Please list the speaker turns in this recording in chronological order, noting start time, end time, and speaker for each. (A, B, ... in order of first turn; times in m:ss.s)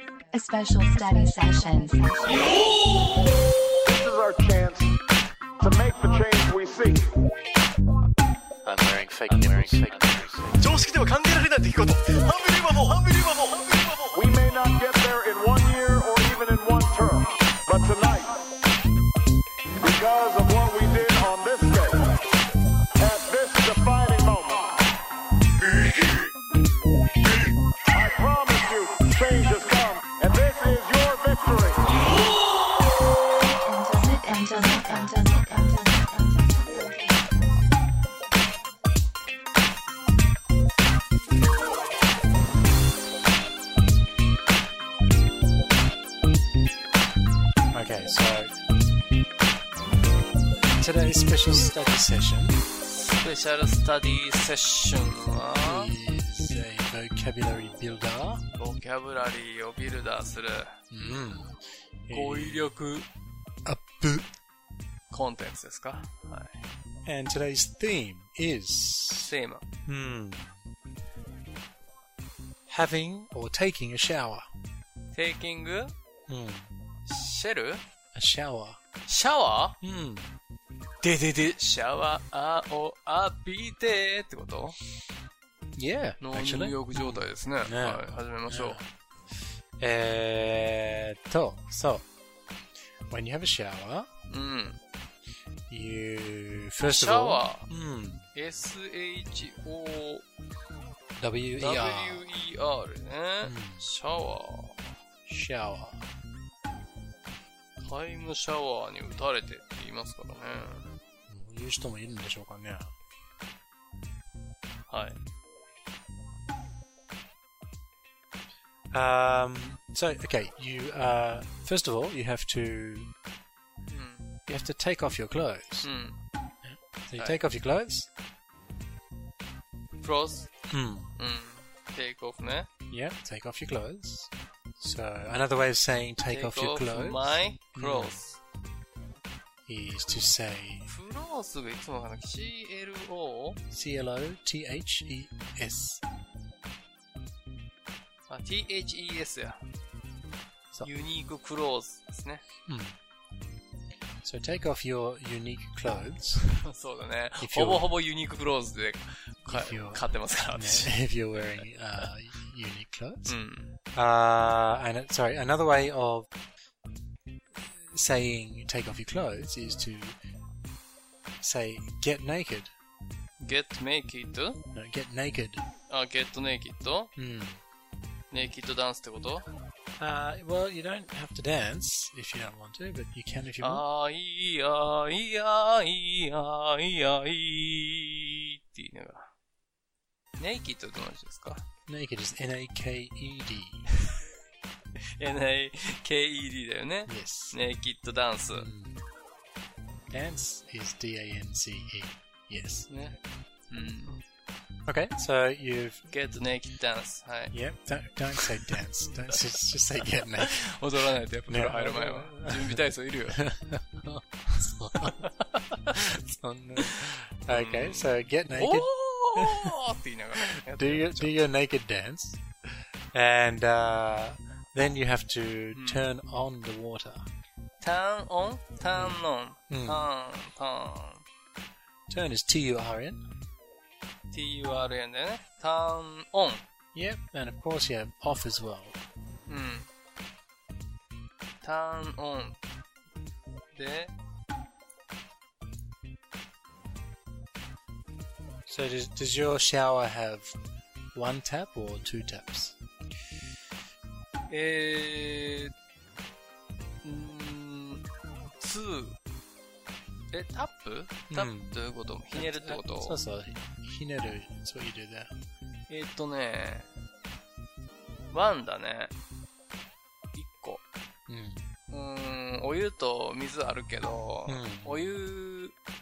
0:00.3-0:02.6 A
0:03.8-0:05.0 B
0:05.6-0:07.1 B
0:08.6-0:10.4 C
0:08.6-0:14.2 D
0:14.1-0:18.4 B
0:19.8-0:22.2 B
0:23.0-0:24.8 B
0:27.9-0:32.0 B
0:33.4-0:37.7 A
0:47.7-0:48.5 C
0:50.6-0:52.6 C
0:52.8-0:56.0 E
0:55.6-0:58.4 C
0:58.5-1:01.3 E
1:00.9-1:02.7 C
1:02.1-1:03.1 E
1:03.6-1:04.2 C
1:05.1-1:06.6 E
1:07.0-1:09.3 C
1:09.2-1:09.6 E
1:09.8-1:10.6 C
1:12.7-1:14.5 C
1:15.1-1:15.9 E
1:16.3-1:16.7 C
1:17.1-1:17.8 E
1:18.1-1:18.8 C
1:19.0-1:19.8 E
1:19.8-1:20.3 C
1:21.0-1:24.8 E
1:25.8-1:28.8 C
1:26.2-1:28.8 E
1:29.8-1:32.0 C
1:33.1-1:34.1 C
1:34.3-1:34.8 E
1:35.7-1:38.2 C
1:36.8-1:37.7 E
1:38.3-1:40.2 E
1:41.2-1:42.2 C
1:41.6-1:44.9 E
1:43.4-1:43.9 C
1:45.2-1:46.1 C
1:47.8-1:51.0 E
1:51.3-1:52.9 C
1:54.9-1:55.2 E
1:58.9-2:03.1 C
2:03.8-2:04.3 E
2:04.5-2:05.9 C
2:05.8-2:06.2 E
2:06.6-2:08.1 C
2:10.0-2:10.5 E
2:10.7-2:11.1 C
2:11.2-2:12.7 E
2:12.9-2:18.2 C
2:16.3-2:18.4 E
2:19.7-2:20.9 C
2:20.8-2:23.6 E
2:23.7-2:26.0 C
2:28.3-2:29.6 E
2:30.8-2:32.4 E
2:32.7-2:33.0 C
2:34.2-2:36.4 C
2:36.6-2:42.1 E
2:37.4-2:37.9 C
2:39.4-2:43.4 C
2:43.2-2:43.7 E
2:43.9-2:46.3 C
2:47.8-2:50.2 C
2:51.4-2:52.7 C
2:53.4-2:54.6 E
2:54.7-2:55.6 C
2:55.9-2:57.1 E
2:57.2-2:57.6 C
2:58.3-2:59.5 E
3:00.0-3:03.8 C
3:03.6-3:09.3 E
3:10.4-3:11.6 E
3:11.9-3:13.9 C
3:15.2-3:18.7 E
3:17.1-3:17.6 C
3:18.5-3:19.0 C
3:20.1-3:22.9 C
3:22.9-3:23.2 E
3:23.7-3:24.2 E
3:24.9-3:26.1 C
3:26.1-3:27.5 E
3:27.5-3:30.9 C
3:28.3-3:28.8 E
3:30.0-3:33.4 E
3:31.5-3:35.2 C
3:35.0-3:35.3 E
3:35.9-3:39.7 C
3:37.5-3:41.4 E
3:40.6-3:42.4 C
3:43.1-3:47.2 C
3:45.7-3:46.0 E
3:47.8-3:51.2 E
3:48.9-3:50.1 C
3:52.1-3:53.2 C
3:54.3-3:56.6 E
3:56.9-3:59.0 C
3:59.5-3:59.9 E
4:01.6-4:02.6 E
4:03.7-4:04.1 E
4:08.6-4:10.5 C
4:11.1-4:12.8 C
4:14.5-4:15.7 E
4:17.0-4:18.0 E
4:18.6-4:19.2 E
4:20.3-4:23.2 E
4:21.3-4:21.8 C
4:22.3-4:25.3 C
4:25.9-4:26.9 E
4:28.3-4:29.1 E
4:30.3-4:30.8 E
4:31.3-4:31.6 C
4:31.9-4:35.7 E
4:34.5-4:35.1 C